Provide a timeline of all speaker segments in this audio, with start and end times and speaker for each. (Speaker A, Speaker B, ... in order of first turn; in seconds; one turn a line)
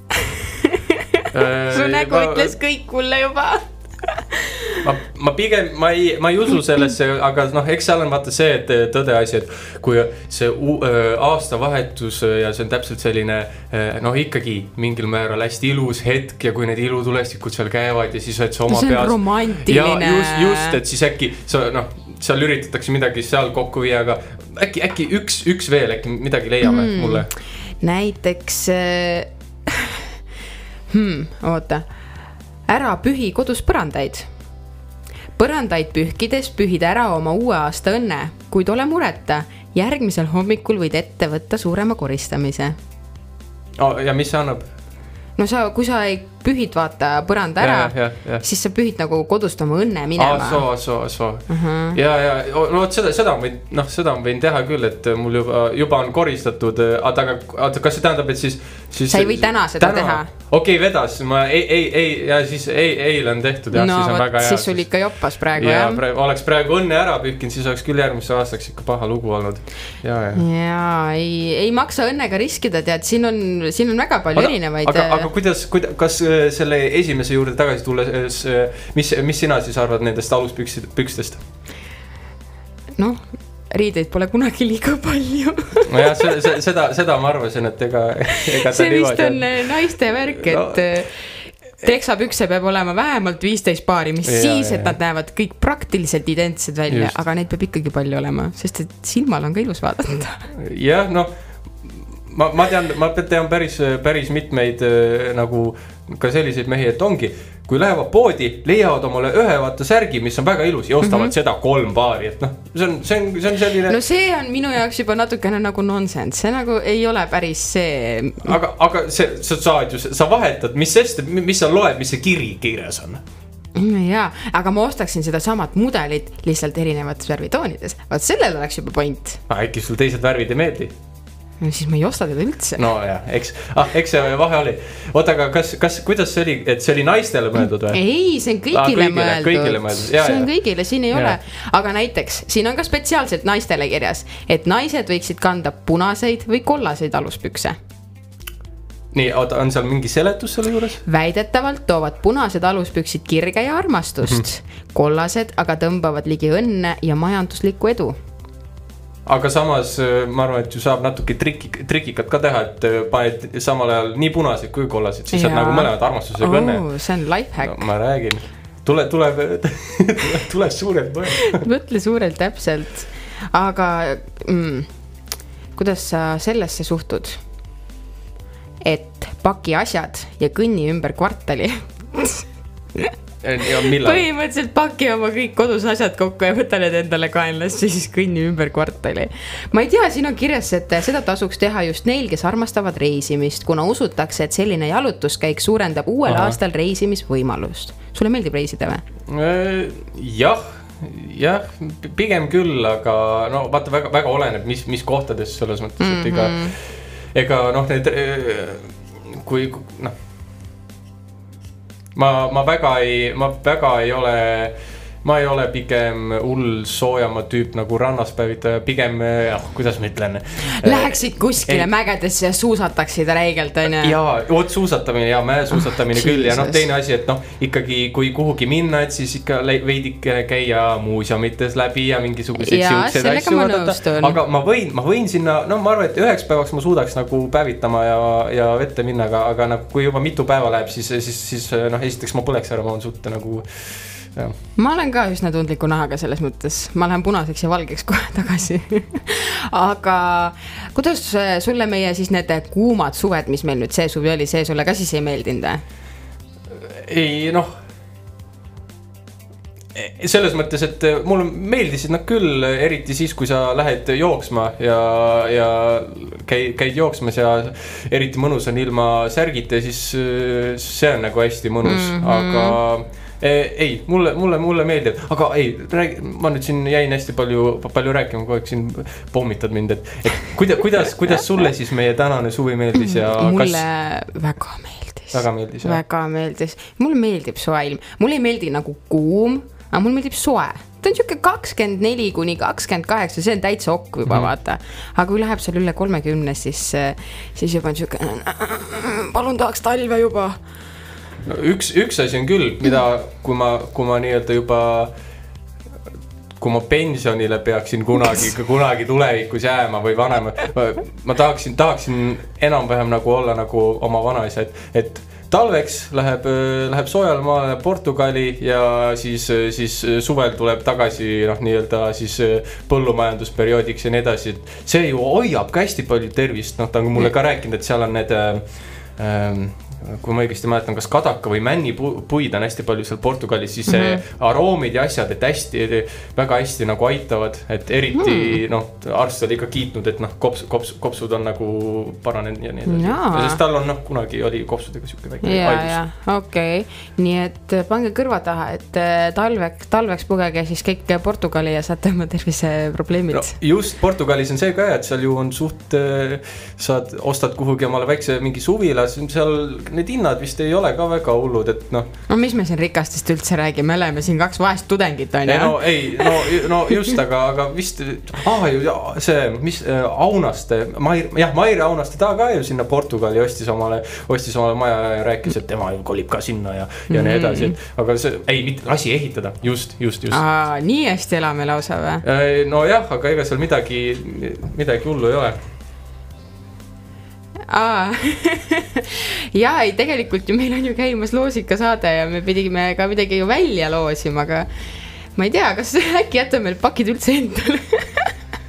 Speaker A: 0.6-4.8
Speaker B: 1.3-2.5
Speaker B: 4.8-27.3
Speaker A: 18.7-20.8
Speaker A: 26.6-30.1
Speaker A: 30.9-31.8
Speaker A: 32.7-34.3
Speaker A: 35.4-42.8
Speaker B: 43.8-44.6
Speaker A: 45.4-50.7
Speaker B: 47.6-48.4
Speaker B: 50.2-70.5
Speaker A: 51.5-52.0
Speaker A: 59.1-60.3
Speaker A: 63.7-66.0
Speaker A: 70.3-75.3
Speaker B: 74.3-81.4
Speaker A: 83.0-86.4
Speaker B: 85.9-89.7
Speaker A: 88.3-100.5
Speaker B: 90.4-91.0
Speaker B: 94.2-95.0
Speaker B: 96.9-97.2
Speaker B: 100.5-114.0
Speaker A: 111.0-111.3
Speaker A: 113.9-118.6
Speaker B: 118.4-123.2
Speaker A: 123.8-129.4
Speaker B: 129.5-130.9
Speaker A: 131.6-132.8
Speaker B: 132.8-138.0
Speaker A: 137.9-147.8
Speaker B: 138.7-140.5
Speaker B: 141.1-141.4
Speaker B: 149.1-151.0
Speaker A: 151.1-158.2
Speaker B: 159.3-166.9
Speaker A: 165.3-167.9
Speaker B: 167.6-171.6
Speaker A: 171.4-174.9
Speaker A: 175.8-177.4
Speaker A: 178.8-183.1
Speaker B: 183.4-184.2
Speaker A: 183.8-199.0
Speaker B: 196.3-196.6
Speaker B: 199.3-210.1
Speaker A: 206.0-206.8
Speaker B: 212.2-221.9
Speaker A: 220.7-224.2
Speaker B: 223.8-244.6
Speaker A: 225.7-226.8
Speaker A: 232.6-234.4
Speaker A: 244.8-255.8
Speaker B: 256.8-257.7
Speaker B: 259.9-283.8
Speaker A: 271.8-272.8
Speaker A: 282.9-300.6
Speaker B: 285.3-286.0
Speaker B: 294.3-294.5
Speaker B: 301.5-305.1
Speaker B: 306.6-346.0
Speaker A: 333.9-334.2
Speaker A: 338.2-338.6
Speaker A: 342.9-343.6
Speaker A: 345.4-353.5
Speaker B: 353.3-362.1
Speaker A: 362.3-366.9
Speaker B: 365.5-380.4
Speaker A: 377.1-377.8
Speaker A: 380.3-382.2
Speaker B: 382.2-385.6
Speaker A: 387.7-394.7
Speaker A: 395.4-398.3